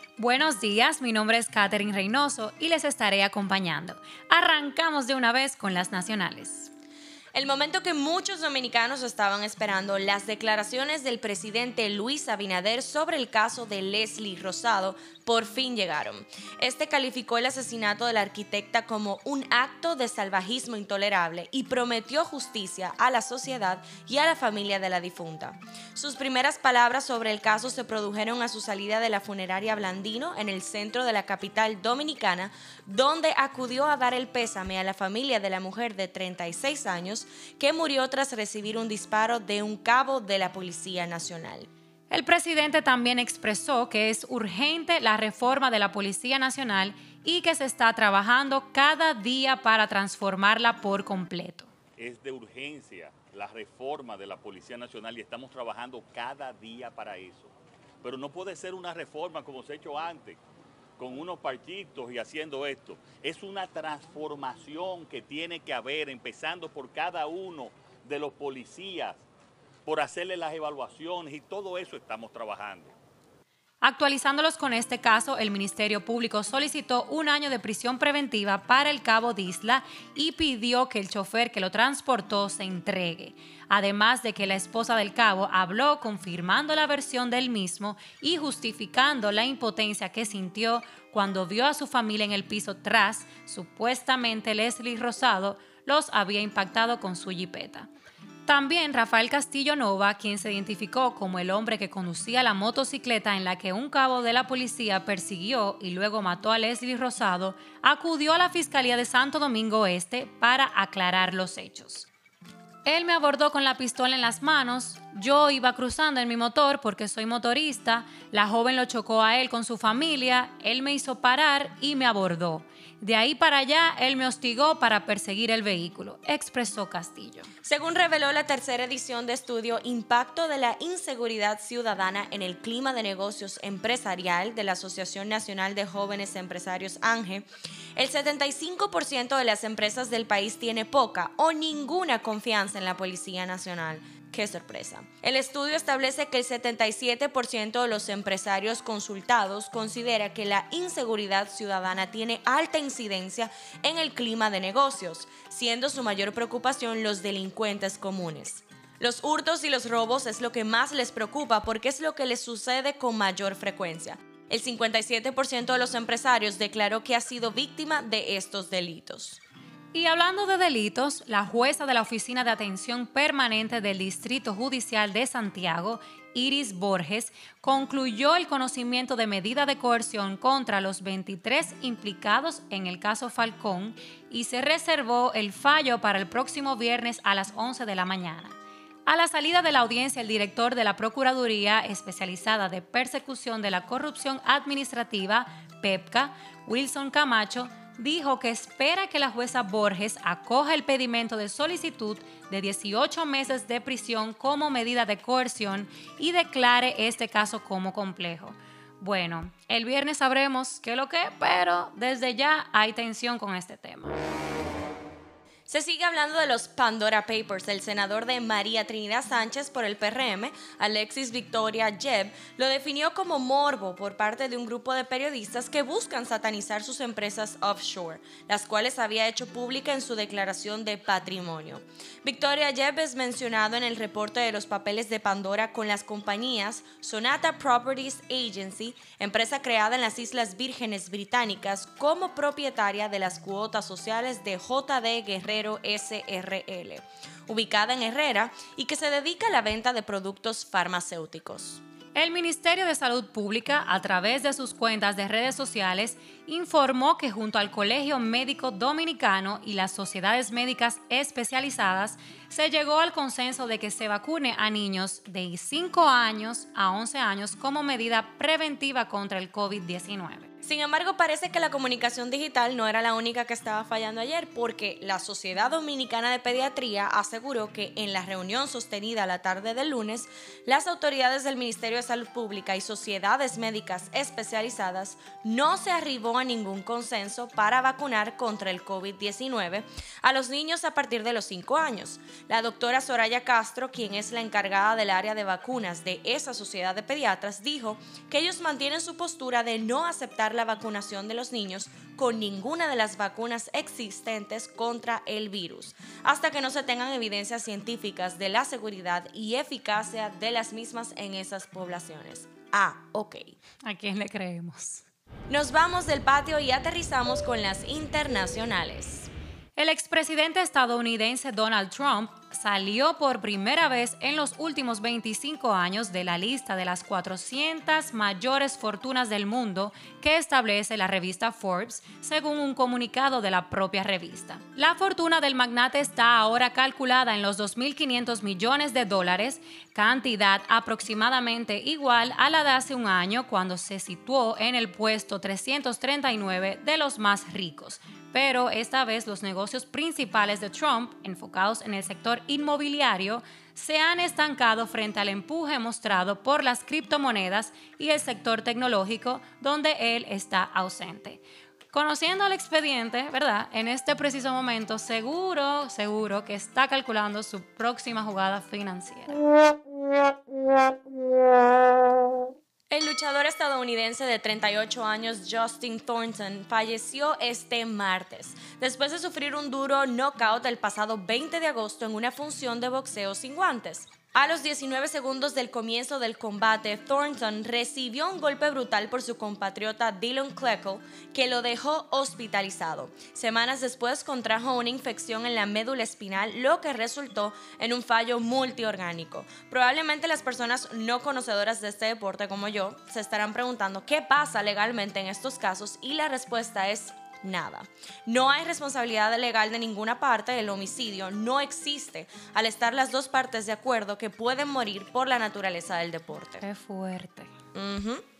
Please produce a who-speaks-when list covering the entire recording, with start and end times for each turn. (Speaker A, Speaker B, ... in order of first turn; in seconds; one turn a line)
Speaker A: 0.2-6.7
Speaker B: 7.3-41.7
Speaker A: 42.1-51.7
Speaker C: 52.0-60.4
Speaker C: 61.0-69.2
Speaker C: 69.8-72.9
Speaker A: 73.8-97.9
Speaker A: 98.5-112.1
Speaker A: 112.8-127.5
Speaker B: 127.6-169.4
Speaker A: 169.9-214.2
Speaker B: 215.7-251.8
Speaker A: 252.1-270.5
Speaker B: 270.6-313.6
Speaker A: 313.8-315.1
Speaker B: 315.5-319.3
Speaker A: 319.8-369.4
Speaker B: 372.9-416.6
Speaker A: 416.6-417.5
Speaker B: 417.7-418.2